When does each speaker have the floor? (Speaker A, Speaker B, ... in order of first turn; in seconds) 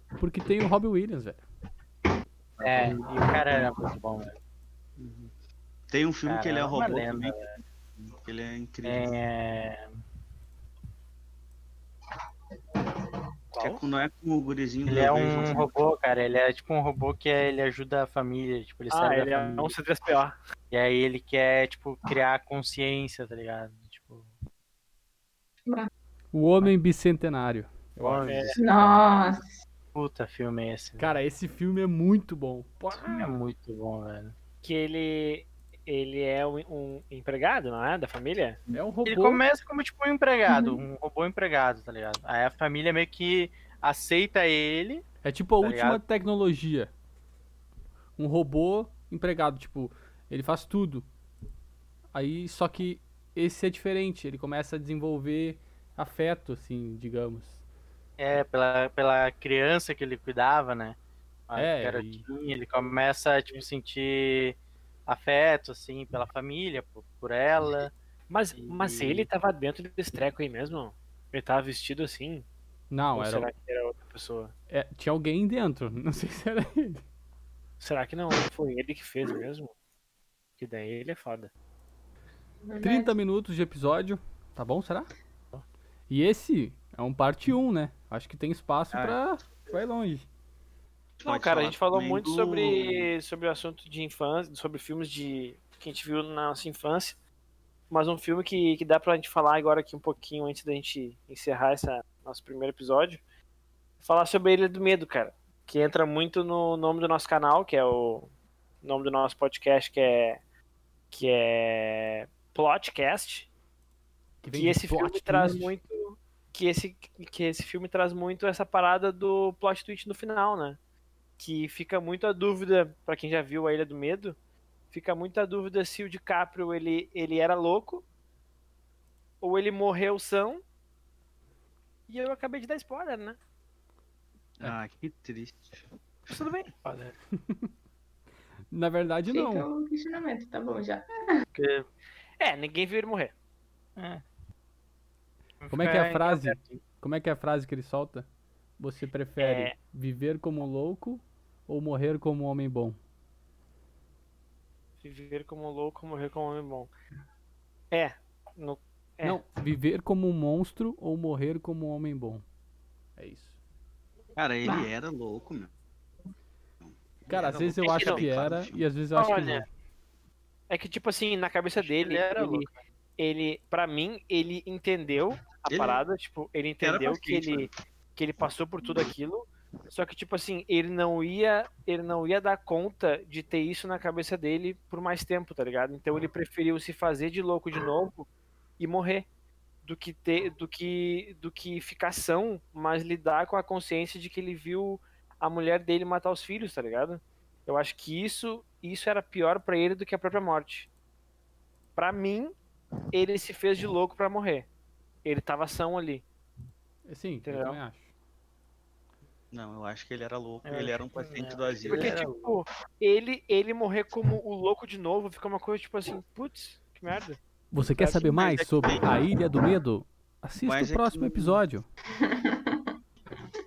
Speaker A: 0.2-1.4, 26.3-28.5, 31.0-33.4, 38.7-39.4, 45.2-46.9, 48.2-51.1, 52.1-57.6, 61.6-62.3, 72.9-73.5, 74.7-77.0, 82.8-85.1, 86.1-90.3, 114.4-115.8, 137.4-137.7, 138.7-139.7, 145.7-148.3, 148.8-153.0, 159.2-162.4, 163.2-163.6, 167.3-169.7, 207.1-208.1, 217.7-221.9
Speaker B: 2.6-3.7, 5.0-5.3, 5.9-9.1, 13.6-15.7, 88.9-89.2, 91.2-93.1, 134.6-135.9, 164.4-165.7, 166.8-168.8, 175.7-176.0, 176.8-177.7, 209.5-212.1, 218.2-219.2, 220.6-221.6
Speaker C: 2.6-4.4, 6.3-7.5, 8.8-9.9, 14.9-19.8, 20.7-24.3, 28.0-29.0, 29.9-31.1, 32.9-34.3, 39.1-45.0, 45.6-46.0, 58.2-61.0, 61.5-67.9, 68.5-69.3, 136.8-137.2, 141.5-141.9, 144.0-144.2, 145.6-146.8, 169.1-169.6, 171.8-172.8, 210.6-212.6
Speaker D: 18.9-20.4, 28.2-28.6, 34.6-38.6, 68.3-72.5, 73.1-74.5, 77.8-79.7, 80.6-81.5, 91.2-97.2, 97.9-103.2, 104.0-108.3, 108.8-110.4, 111.1-113.5, 114.5-120.8, 121.4-124.4, 124.9-128.1, 129.4-130.6, 132.1-133.4, 136.3-136.7, 142.4-143.3, 149.4-149.8, 155.0-156.9, 157.9-159.4, 167.8-168.2, 170.7-188.3, 188.8-189.3, 189.8-200.9, 202.0-202.5, 203.1-204.7, 205.2-206.2, 207.4-207.8, 211.9-217.4, 217.9-218.2
Speaker E: 28.6-29.6, 40.5-40.8, 82.6-83.1, 139.3-141.4, 222.2-222.8